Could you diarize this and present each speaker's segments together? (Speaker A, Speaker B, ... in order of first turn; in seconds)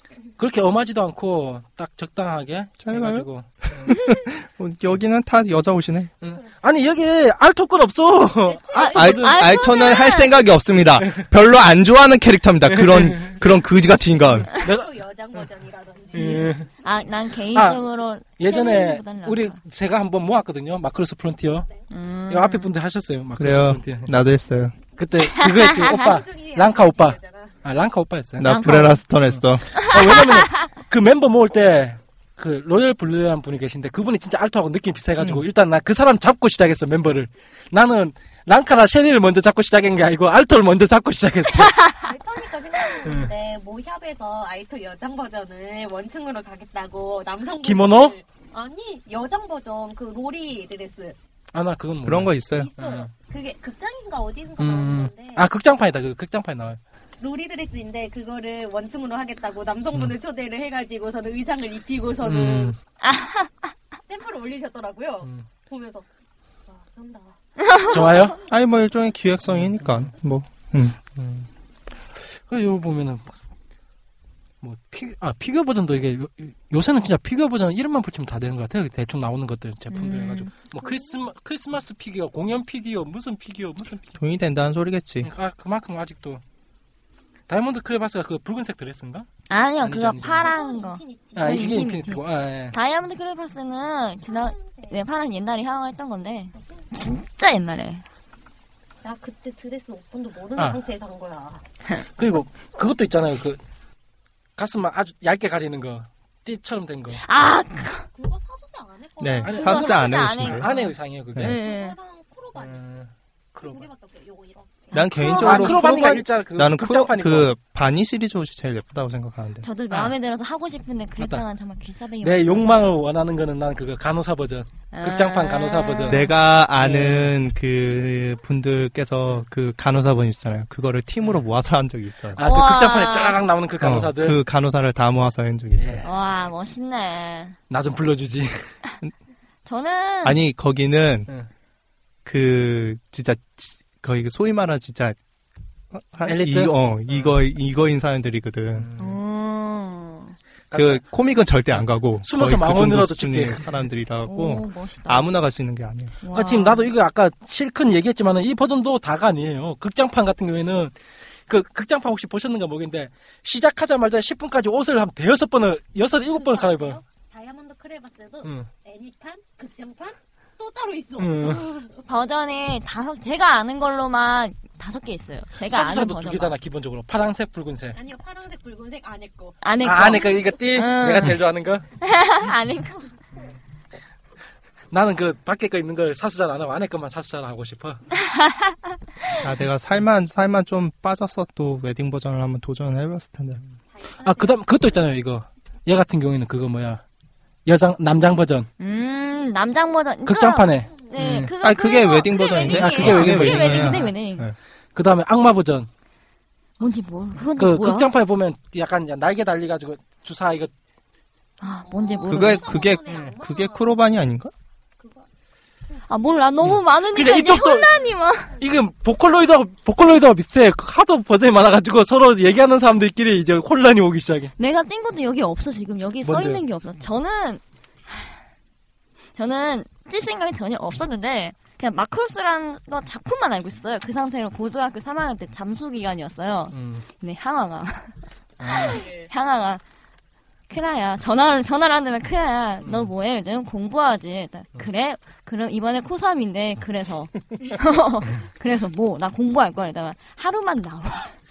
Speaker A: 0.4-3.9, 6.2-8.8, 11.0-11.3, 12.7-13.4, 14.5-15.5, 16.1-16.7, 17.5-17.8, 18.4-21.7, 22.3-24.1, 25.0-28.5, 29.3-41.8, 43.0-43.3, 47.6-48.1, 51.5-53.1, 54.6-56.8, 62.2-62.8, 67.9-68.4, 69.4-70.1, 71.2-71.5, 72.5-73.3, 74.6-84.1, 85.2-86.4, 87.5-89.3, 89.8-90.5, 91.3-92.7, 102.1-103.6, 104.6-107.2, 109.4-111.6, 112.5-113.9, 115.4-117.5, 119.9-120.1, 121.2-121.4, 122.2-127.3, 132.4-134.4, 135.7-136.1, 137.7-138.6, 146.2-147.3, 148.8-149.2, 150.7-151.0, 151.7-153.9, 156.3-160.9, 161.5-167.0, 168.4-168.7, 171.2-171.6, 175.6-178.0, 179.8-181.8, 184.9-188.0, 194.2-197.0, 197.7-198.7, 200.2-201.5, 202.5-204.1, 204.9-205.9, 207.6-210.7, 213.1-213.3, 216.6-217.9, 218.6-224.5, 226.2-226.6, 236.7-237.0, 238.6-239.0, 242.8-243.1
Speaker B: 2.8-6.1, 8.8-14.5, 23.4-24.8, 28.4-29.7, 35.2-35.4, 52.0-52.7, 68.4-71.0, 84.1-85.3, 109.2-110.7, 114.9-119.7, 126.1-132.4, 133.8-136.1, 140.2-141.3, 142.2-145.2, 145.9-148.9, 150.7-156.2, 189.4-193.6, 201.6-204.6, 212.3-214.5
Speaker C: 8.4-9.9, 14.4-16.7, 25.6-27.6, 42.0-51.2, 52.5-55.5, 57.2-62.7, 64.0-66.1, 66.7-68.4, 80.8-81.2, 90.3-91.8, 94.2-95.0, 96.5-96.9, 99.0-101.6, 108.1-110.9, 111.4-112.9, 113.6-115.0, 166.3-172.0, 177.9-180.7, 193.9-194.7, 211.8-214.0, 215.0-215.3, 218.0-218.7, 238.7-239.3
Speaker D: 8.7-10.3, 16.8-19.6, 21.9-22.7, 25.3-25.9, 28.4-29.0, 29.8-30.7, 41.6-42.0, 63.0-63.7, 67.6-67.9, 79.9-80.5, 89.5-98.0, 107.2-108.1, 109.5-112.0, 114.9-116.2, 119.6-122.8, 124.9-126.3, 132.4-133.4, 136.0-137.6, 139.6-140.4, 149.0-150.3, 154.2-155.3, 156.2-156.9, 172.1-176.6, 179.6-181.4, 182.0-183.1, 188.2-188.7, 198.8-204.4, 206.8-208.1, 211.6-212.8, 216.1-218.5, 224.6-228.3, 229.3-238.1, 238.7-239.8, 240.7-251.3